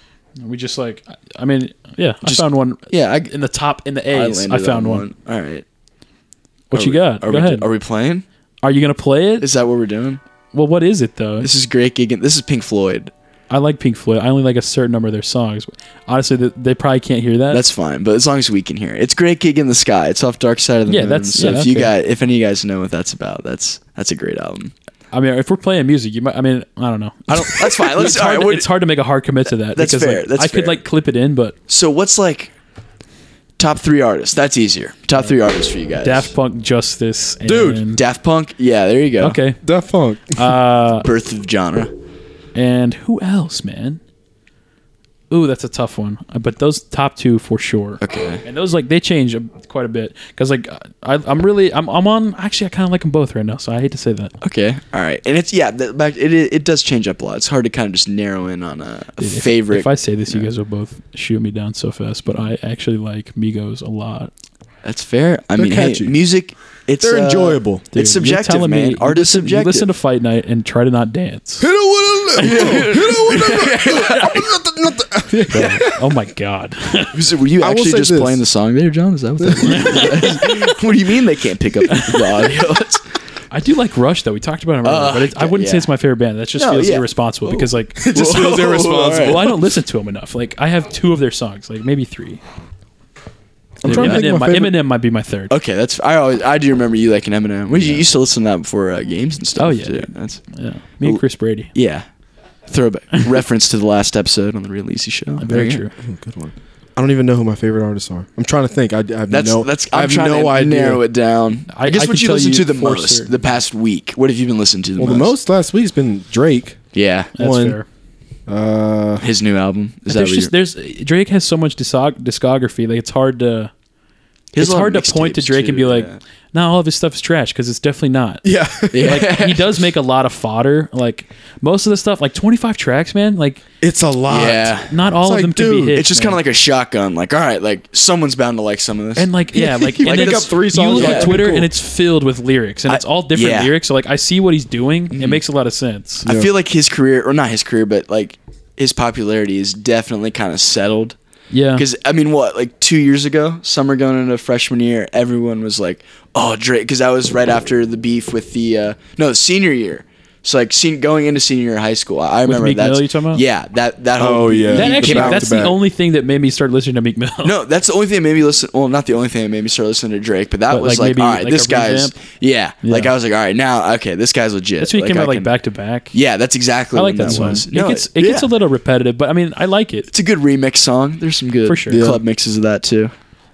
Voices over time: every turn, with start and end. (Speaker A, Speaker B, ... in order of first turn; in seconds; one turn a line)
Speaker A: 0.4-5.0
Speaker B: 2.2-3.3
Speaker B: 4.1-5.6
Speaker A: 6.7-7.7
Speaker B: 6.7-8.2
Speaker A: 8.6-9.5
Speaker B: 9.4-10.2
Speaker A: 10.5-11.5
Speaker B: 11.4-13.1
Speaker A: 13.5-17.6
Speaker B: 17.5-24.7
Speaker A: 20.9-21.9
Speaker A: 25.1-31.5
Speaker B: 27.3-28.7
Speaker B: 29.7-30.8
Speaker B: 31.7-32.5
Speaker B: 33.6-36.3
Speaker A: 36.0-38.0
Speaker C: 37.4-37.8
Speaker B: 37.9-39.4
Speaker A: 39.2-39.6
Speaker C: 39.6-40.5
Speaker A: 40.3-41.1
Speaker B: 41.0-41.9
Speaker A: 42.5-44.0
Speaker A: 45.3-54.3
Speaker B: 48.0-48.4
Speaker B: 54.4-60.5
Speaker A: 59.2-64.3
Speaker B: 64.8-69.9
Speaker C: 65.5-66.2
Speaker C: 67.0-67.8
Speaker A: 67.9-71.7
Speaker C: 71.6-76.0
Speaker B: 72.3-74.5
Speaker A: 75.5-77.1
Speaker B: 75.5-75.8
Speaker B: 77.1-83.0
Speaker C: 77.6-78.4
Speaker C: 79.4-79.9
Speaker A: 79.7-80.5
Speaker A: 81.9-82.6
Speaker A: 83.5-88.2
Speaker B: 84.8-85.9
Speaker B: 86.5-89.5
Speaker C: 88.0-89.5
Speaker A: 89.2-92.4
Speaker C: 93.8-94.8
Speaker A: 93.8-95.5
Speaker B: 93.8-94.2
Speaker B: 95.5-102.0
Speaker A: 99.6-101.7
Speaker B: 102.7-105.8
Speaker A: 105.4-105.9
Speaker C: 106.0-111.0
Speaker B: 109.3-115.3
Speaker A: 111.7-113.4
Speaker C: 115.0-116.8
Speaker B: 116.9-117.3
Speaker A: 117.3-117.8
Speaker C: 117.4-117.8
Speaker C: 118.5-119.2
Speaker B: 119.2-120.5
Speaker A: 120.1-123.7
Speaker B: 124.5-126.2
Speaker A: 124.6-128.4
Speaker C: 128.4-129.2
Speaker B: 128.9-129.8
Speaker A: 129.0-133.6
Speaker C: 133.8-136.0
Speaker B: 134.3-134.9
Speaker A: 134.9-136.4
Speaker B: 135.9-141.4
Speaker A: 139.2-146.3
Speaker C: 140.0-141.7
Speaker B: 142.9-143.7
Speaker B: 145.1-145.4
Speaker B: 146.2-151.2
Speaker C: 146.2-146.5
Speaker A: 151.5-151.8
Speaker B: 151.8-165.7
Speaker A: 162.4-163.4
Speaker C: 164.2-165.8
Speaker A: 164.7-167.5
Speaker B: 167.4-175.5
Speaker A: 170.7-172.2
Speaker A: 172.8-173.1
Speaker A: 174.8-176.1
Speaker B: 176.1-178.5
Speaker A: 176.9-180.1
Speaker C: 177.2-177.6
Speaker B: 180.1-183.1
Speaker A: 181.7-182.1
Speaker C: 181.9-182.2